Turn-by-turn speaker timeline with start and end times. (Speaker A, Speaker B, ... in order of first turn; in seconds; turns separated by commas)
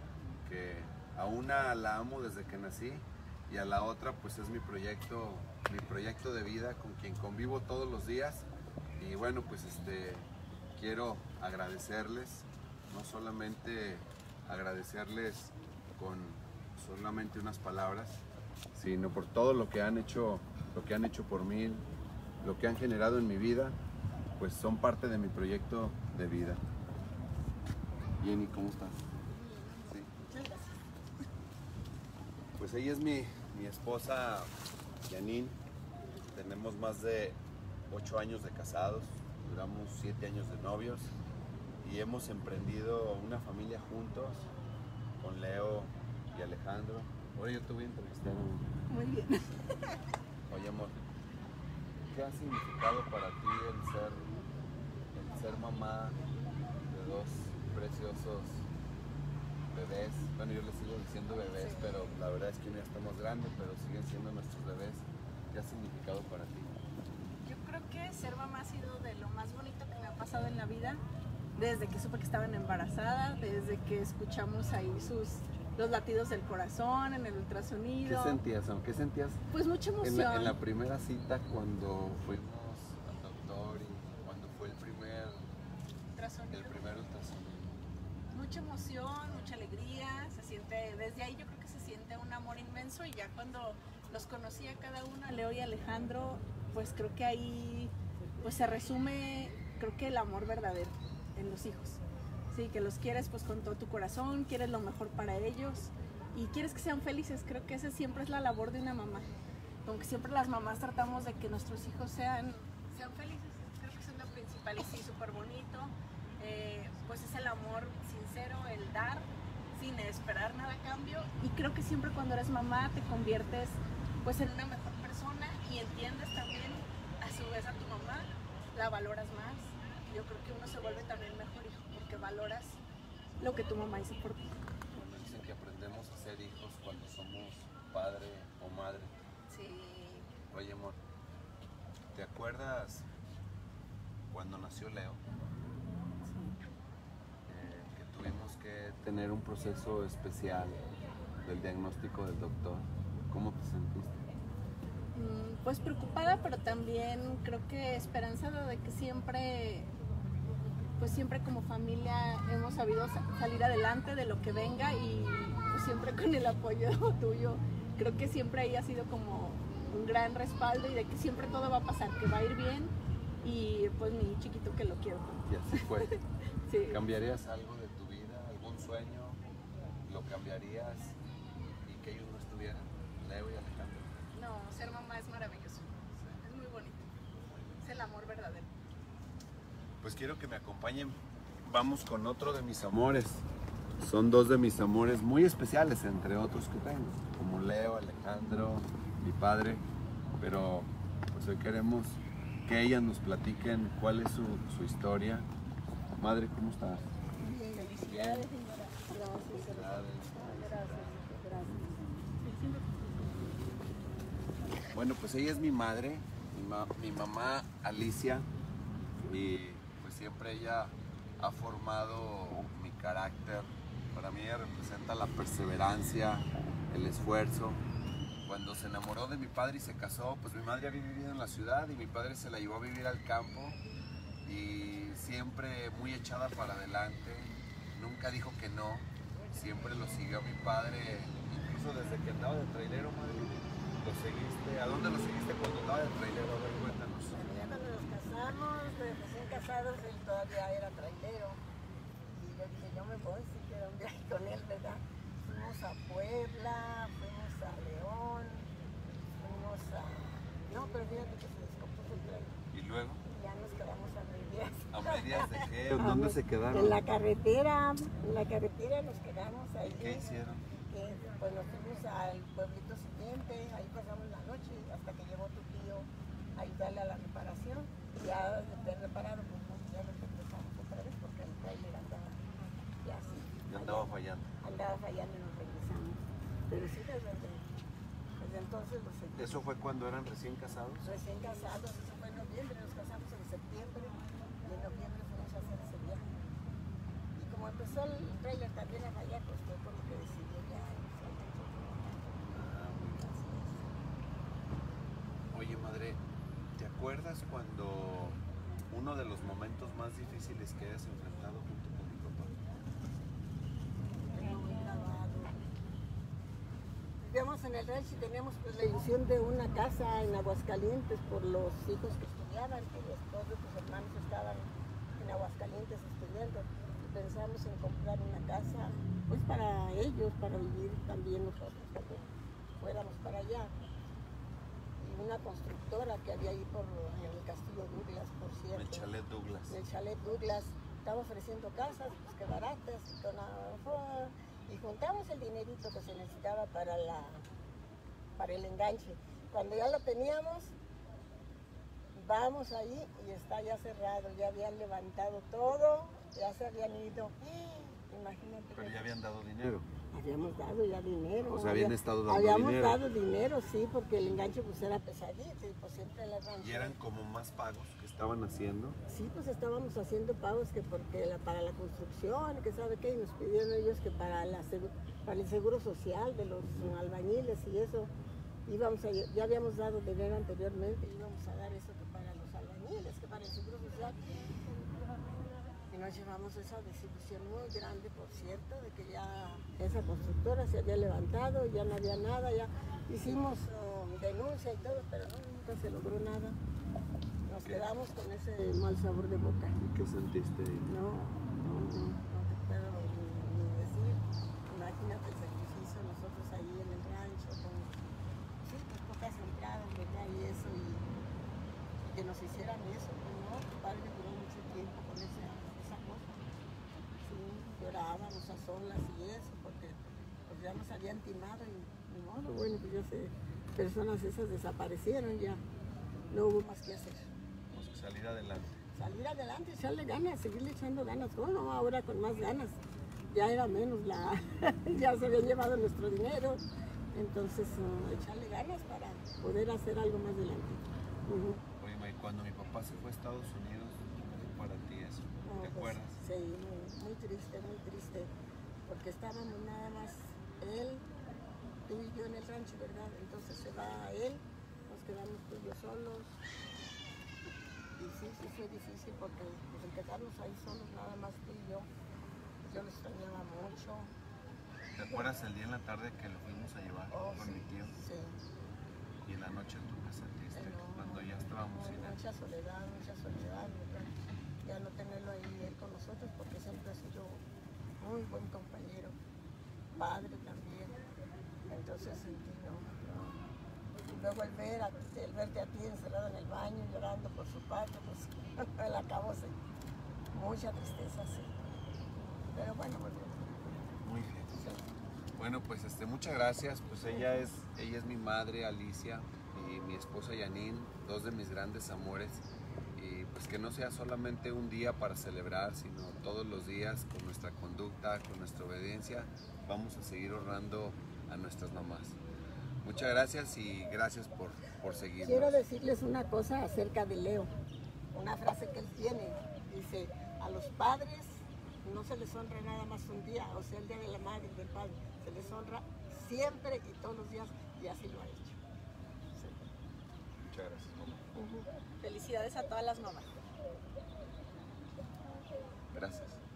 Speaker A: 0.4-8.5, Speaker A: 9.0-21.8, Speaker A: 22.4-23.8, Speaker A: 24.4-26.6, Speaker A: 28.2-29.0, Speaker B: 30.2-30.7, Speaker A: 32.6-34.5, Speaker A: 35.0-35.6, Speaker A: 36.3-37.4, Speaker A: 37.9-41.1, Speaker A: 41.8-44.5, Speaker A: 45.2-48.7, Speaker B: 48.9-50.0, Speaker A: 50.5-50.9, Speaker A: 52.1-54.4, Speaker A: 55.1-56.2, Speaker A: 56.9-58.7, Speaker A: 59.7-66.7, Speaker B: 61.5-62.0, Speaker B: 67.4-71.0, Speaker B: 71.5-78.4, Speaker A: 78.0-79.4, Speaker B: 79.5-80.6, Speaker A: 80.0-85.5, Speaker B: 86.1-87.0, Speaker A: 86.5-87.8, Speaker B: 88.3-102.0, Speaker B: 102.5-109.3, Speaker B: 109.8-132.8, Speaker B: 133.4-134.6, Speaker A: 134.9-139.2, Speaker B: 139.5-140.3, Speaker A: 140.5-141.0, Speaker A: 142.1-143.1, Speaker A: 144.3-145.2, Speaker B: 146.2-146.6, Speaker A: 147.5-150.8, Speaker A: 151.4-154.2, Speaker B: 155.1-159.9, Speaker B: 161.0-177.1, Speaker A: 175.4-176.1, Speaker A: 176.9-179.4, Speaker A: 180.0-181.2, Speaker A: 181.8-184.1, Speaker B: 184.3-187.1, Speaker A: 187.5-187.8, Speaker B: 187.8-188.7, Speaker A: 190.0-193.4, Speaker A: 194.0-199.8, Speaker A: 200.4-205.5, Speaker A: 206.2-207.1, Speaker C: 207.4-208.5, Speaker B: 207.7-209.0, Speaker A: 207.9-208.5, Speaker C: 209.0-212.0, Speaker A: 209.5-211.2, Speaker B: 212.4-213.2, Speaker A: 214.9-218.5, Speaker A: 219.2-227.8, Speaker A: 228.4-233.8, Speaker A: 234.4-247.4, Speaker C: 247.3-251.6, Speaker C: 252.3-258.7, Speaker C: 259.4-262.6, Speaker A: 262.7-263.2, Speaker C: 263.2-270.3, Speaker A: 264.9-267.0, Speaker A: 269.8-270.6, Speaker C: 270.9-282.4, Speaker C: 283.0-287.7, Speaker A: 283.7-284.5, Speaker C: 288.4-289.6, Speaker A: 289.3-291.1, Speaker C: 291.0-296.3, Speaker C: 297.4-302.6, Speaker A: 302.5-303.3, Speaker C: 303.2-303.9, Speaker A: 305.5-306.2, Speaker A: 306.8-312.6, Speaker C: 314.2-315.6, Speaker C: 317.2-333.8, Speaker C: 335.0-339.1, Speaker A: 338.7-339.8, Speaker C: 339.7-347.4, Speaker C: 348.4-350.7, Speaker C: 352.1-359.1, Speaker A: 358.7-359.9, Speaker C: 360.1-366.9, Speaker A: 361.4-363.0, Speaker A: 366.6-369.0, Speaker C: 369.1-378.1, Speaker A: 376.6-377.0, Speaker C: 378.6-384.4, Speaker C: 385.9-396.6, Speaker C: 397.4-399.8, Speaker A: 397.6-397.9, Speaker A: 399.8-400.9, Speaker C: 400.9-408.0, Speaker C: 408.6-411.1, Speaker C: 412.0-416.4, Speaker C: 417.2-425.6, Speaker C: 426.3-427.3, Speaker A: 427.7-428.8, Speaker C: 428.9-441.6, Speaker A: 441.8-446.2, Speaker C: 445.4-448.3, Speaker C: 448.9-451.0, Speaker C: 451.9-456.4, Speaker C: 458.0-461.9, Speaker C: 462.6-464.1, Speaker A: 464.9-467.9, Speaker C: 467.1-468.4, Speaker A: 469.2-472.2, Speaker C: 470.5-474.1, Speaker C: 474.6-477.4, Speaker C: 478.0-479.2, Speaker C: 479.9-481.0, Speaker C: 481.7-483.5, Speaker C: 484.1-489.6, Speaker C: 490.3-491.6, Speaker C: 492.5-493.7, Speaker A: 494.0-494.5, Speaker C: 494.5-494.9, Speaker A: 495.4-512.2, Speaker C: 497.1-497.5, Speaker A: 512.8-515.6, Speaker C: 515.2-517.5, Speaker C: 518.1-528.6, Speaker C: 529.4-529.6, Speaker A: 530.4-531.2, Speaker C: 531.3-531.7, Speaker B: 532.0-533.3, Speaker A: 535.9-536.4